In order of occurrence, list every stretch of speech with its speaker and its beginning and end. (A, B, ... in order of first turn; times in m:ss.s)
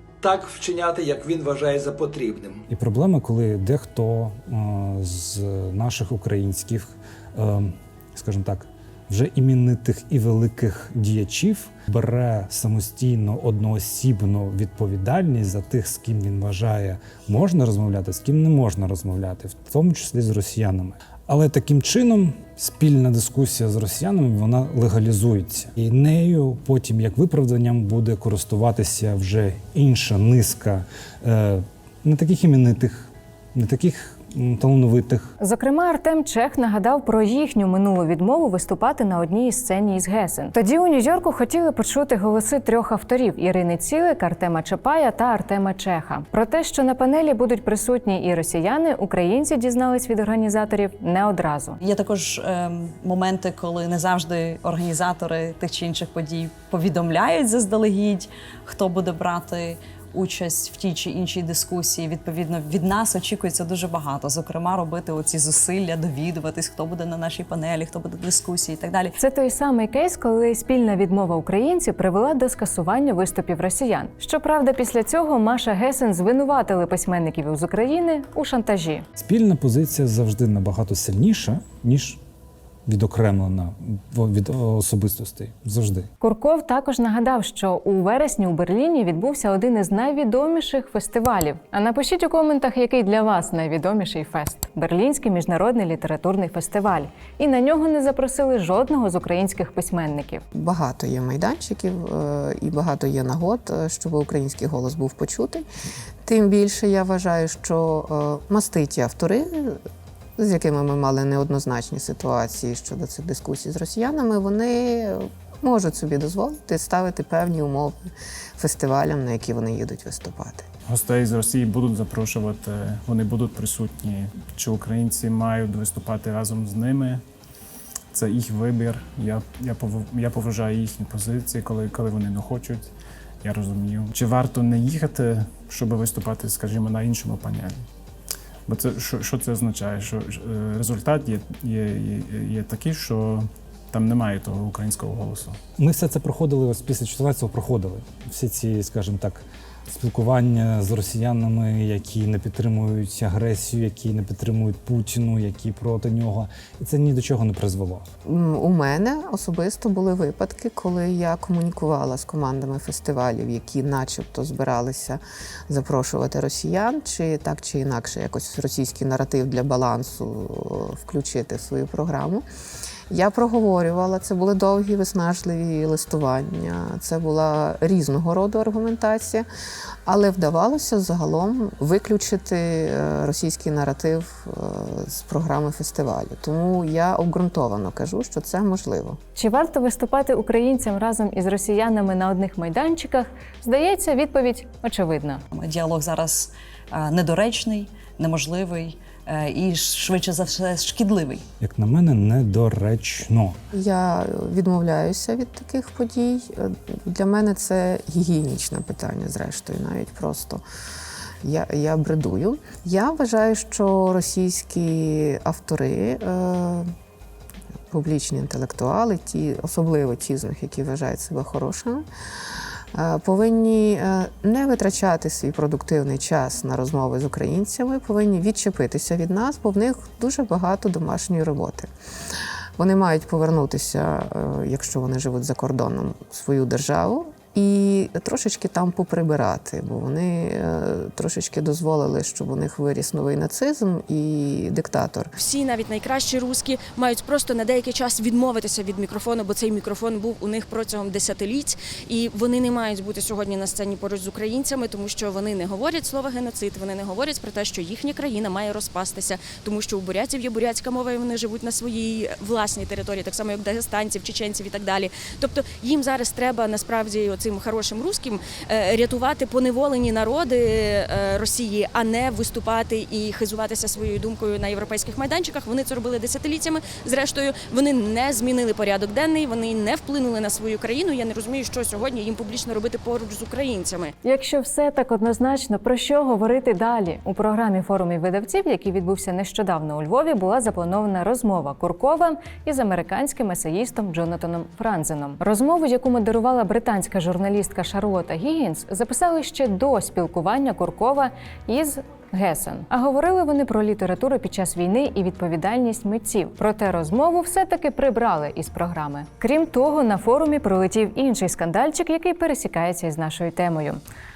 0:00.2-0:02.6 A
0:02.7-0:35.3 B
0:35.4-0:51.8 C
0:51.8-1:09.2 D
1:09.2-1:19.0 C
1:19.2-1:22.2 B
1:22.8-1:26.1 B
1:26.2-1:40.4 C
1:40.5-1:45.6 E
1:46.2-1:49.8 E
1:50.4-1:58.0 E
1:58.6-2:00.6 E
2:00.9-2:07.2 F
2:08.1-2:12.9 F
2:13.4-2:17.8 F
2:18.7-2:25.6 F
2:25.8-2:38.0 B
2:38.2-2:52.4 E
2:53.1-2:59.5 E
3:00.0-3:09.2 E
3:09.4-3:15.4 C
3:15.5-3:21.4 D
3:21.6-3:23.6 B
3:23.7-3:30.6 E
3:31.4-3:36.9 E
3:37.9-3:42.0 E
3:42.9-3:51.9 E
3:52.8-4:05.3 E
4:05.4-4:44.1 G
4:44.2-5:14.0 C